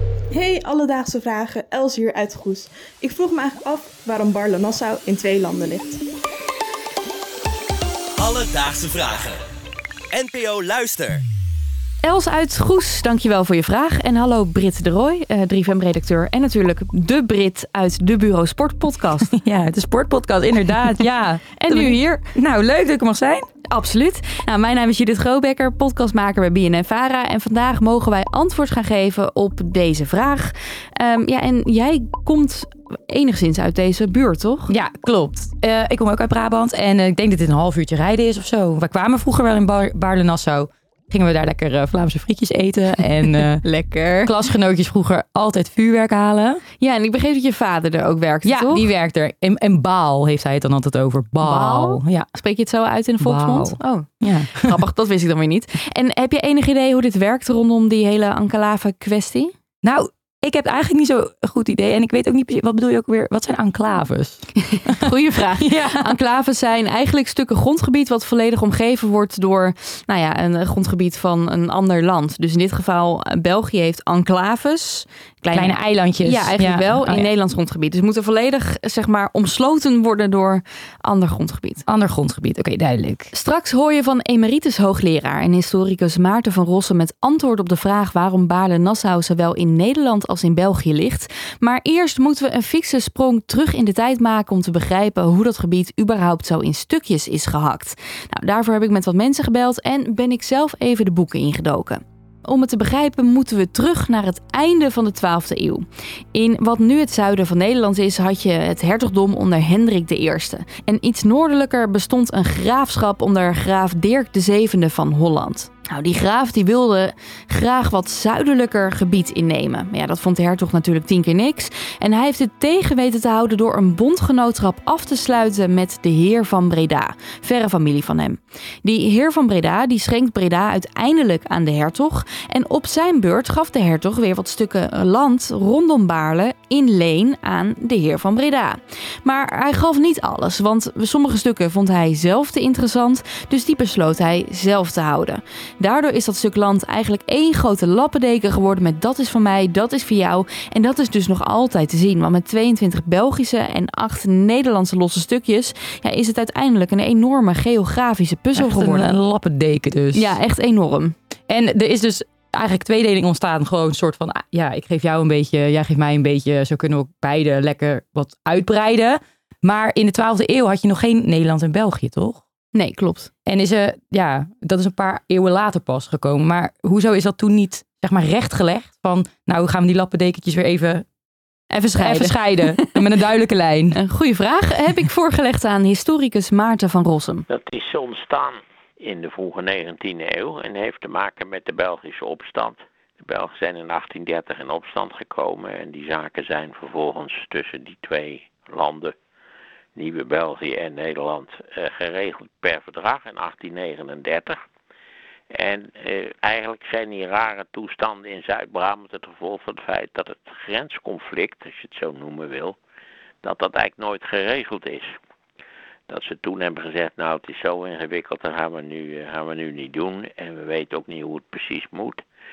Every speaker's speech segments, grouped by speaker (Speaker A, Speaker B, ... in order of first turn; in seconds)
Speaker A: 0.3-6.0
Speaker B: 8.2-9.4, 10.1-11.2
Speaker C: 12.0-19.3, 21.6-22.2, 23.7-34.7, 43.3-44.3, 46.8-48.9, 51.4-59.5, 64.6-81.8, 83.3-159.1, 160.1-161.1, 172.7-173.3, 181.7-182.9, 183.9-187.4
Speaker D: 19.3-23.4, 34.7-43.6, 44.2-46.6, 48.4-52.3, 53.2-54.8, 59.8-66.1, 75.5-77.3, 81.9-83.3, 158.5-160.3, 161.5-172.4, 173.4-181.0, 182.0-184.0
Speaker E: 187.5-199.1, 199.9-204.6, 205.5-212.8, 213.4-215.1, 216.1-222.2